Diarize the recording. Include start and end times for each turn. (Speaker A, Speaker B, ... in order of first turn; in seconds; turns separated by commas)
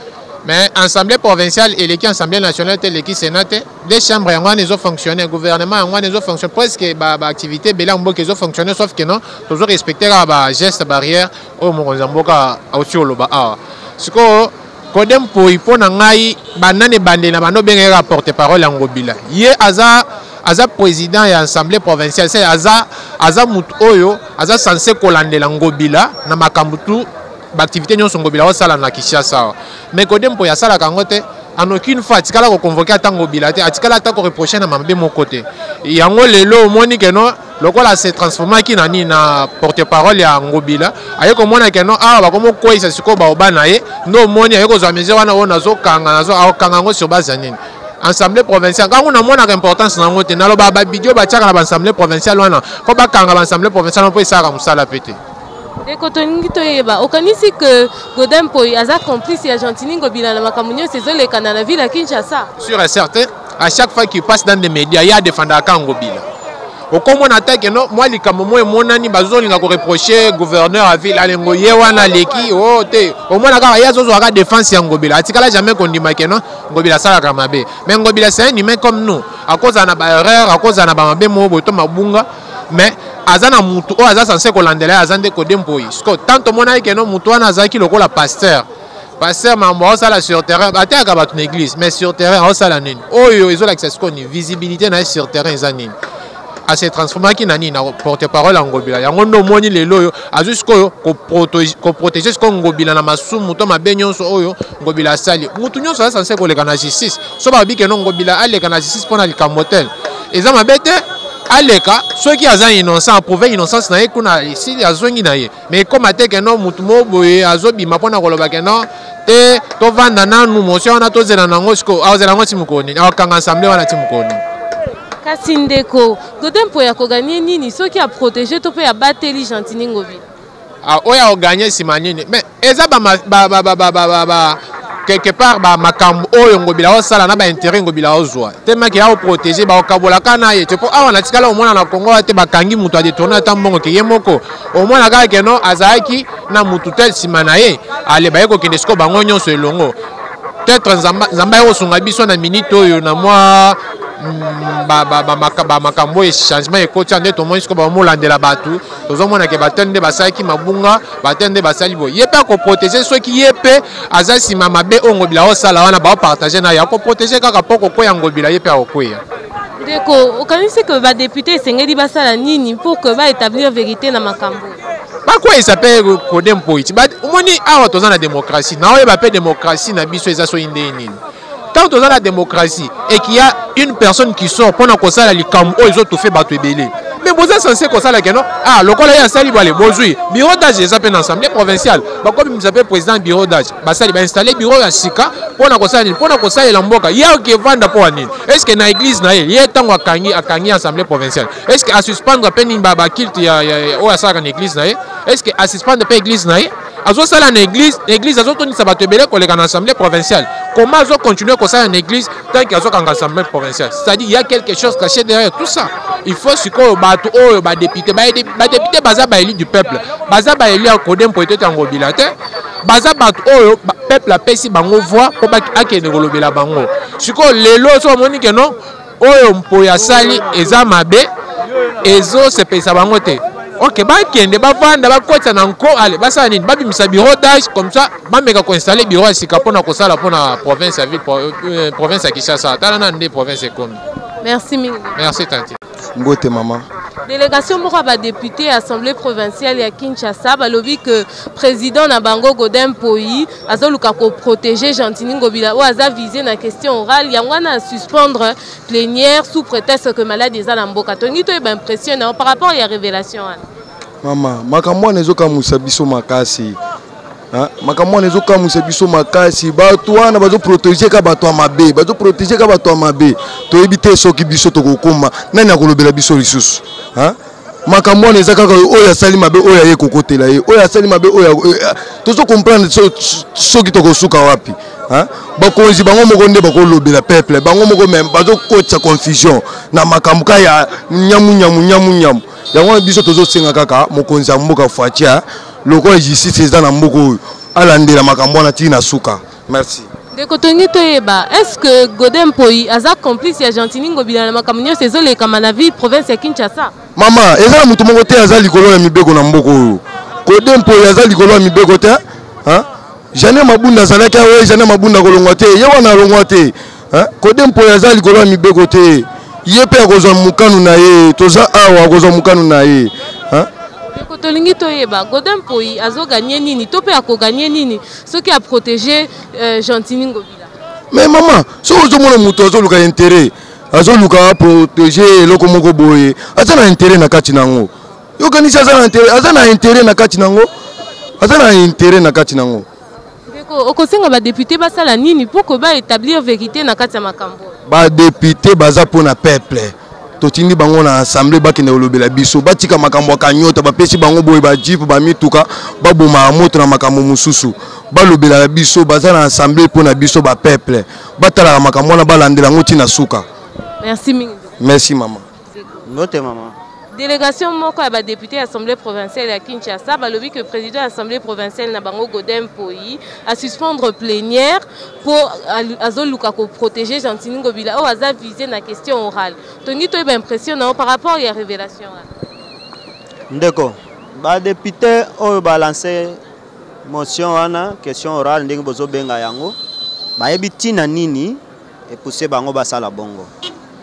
Speaker A: 0.4-55.2, Speaker B: 55.8-62.5, Speaker A: 62.6-66.2, Speaker A: 66.9-88.7, Speaker A: 89.2-95.9, Speaker A: 96.7-124.4, Speaker B: 125.2-130.2, Speaker A: 130.8-149.9, Speaker A: 150.7-169.2, Speaker B: 169.8-174.8, Speaker A: 175.3-181.2, Speaker A: 181.7-222.3, Speaker A: 222.8-231.3, Speaker A: 232.0-244.0, Speaker B: 244.4-245.2, Speaker A: 245.2-245.8, Speaker C: 246.2-246.8, Speaker B: 247.2-263.6, Speaker C: 264.2-266.8, Speaker C: 267.5-300.1, Speaker B: 300.3-306.9, Speaker C: 307.1-323.7, Speaker B: 324.1-330.7, Speaker C: 331.1-340.7, Speaker C: 341.4-342.9, Speaker B: 343.5-347.8, Speaker C: 347.9-363.5, Speaker B: 364.0-364.7, Speaker C: 364.8-365.4, Speaker D: 366.0-366.8, Speaker B: 367.1-382.2, Speaker D: 383.5-386.4, Speaker D: 387.0-389.8, Speaker D: 390.4-393.5